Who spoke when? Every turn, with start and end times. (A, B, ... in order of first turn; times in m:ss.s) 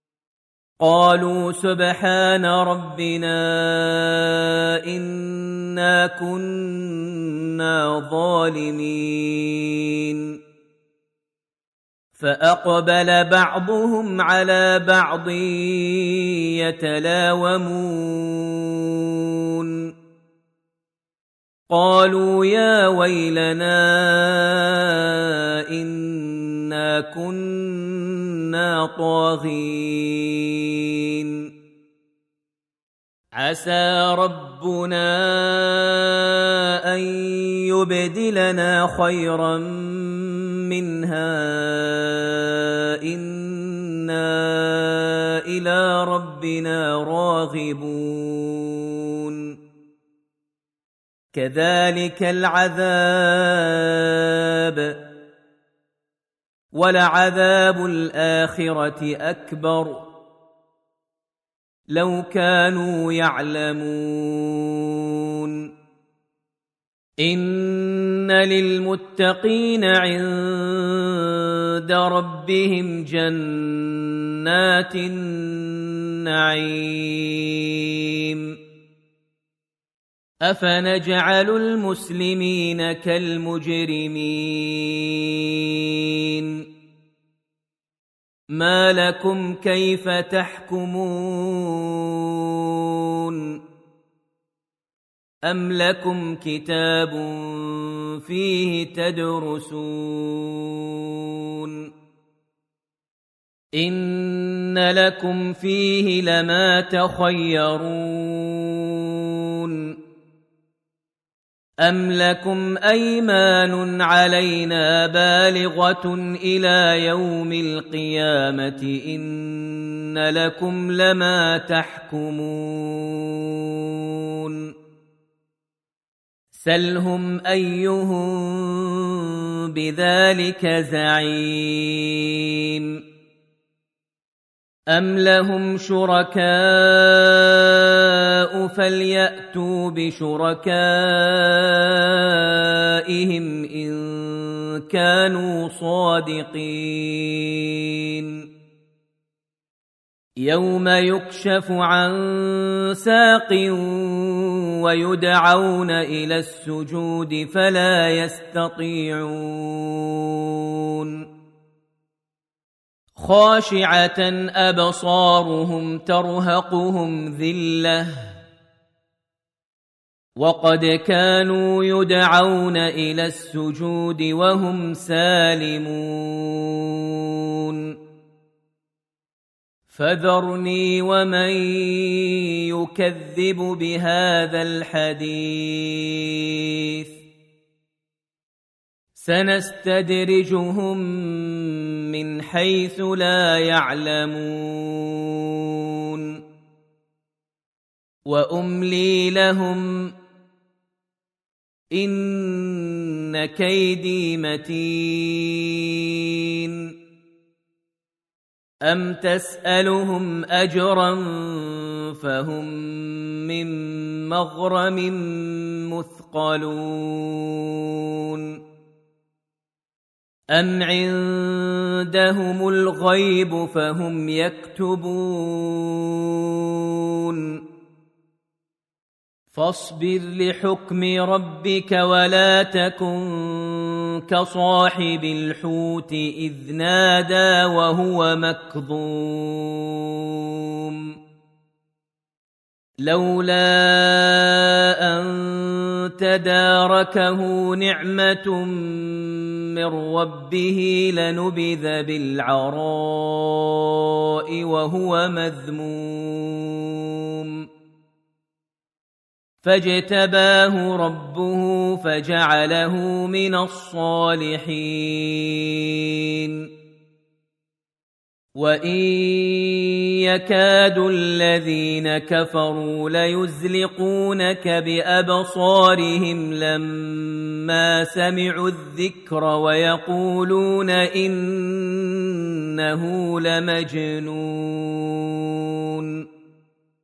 0:00.8-0:10.4 A
0:12.2-0:19.9 A
0:21.7-0:31.5 A
0:33.3-0:49.5 A
0:51.3-0:55.0 A
0:56.8-1:00.1 A
1:01.9-1:05.7 A
1:07.2-1:18.5 A
1:20.4-1:26.6 A
1:28.5-1:33.6 A
1:35.5-1:41.9 A
1:43.8-1:49.9 A
1:51.8-2:04.7 A
2:06.5-2:13.0 A
2:14.9-2:28.4 A
2:30.4-2:41.2 A
2:43.2-2:48.3 A
2:50.4-2:57.9 A
2:59.9-3:07.1 A
3:09.1-3:16.4 A
3:18.3-3:20.1 A
3:21.9-3:26.9 A
3:28.9-3:38.6 A
3:40.5-3:47.6 A
3:49.5-4:01.1 A
4:03.0-4:17.7 A
4:19.6-4:26.7 A
4:28.6-4:46.2 A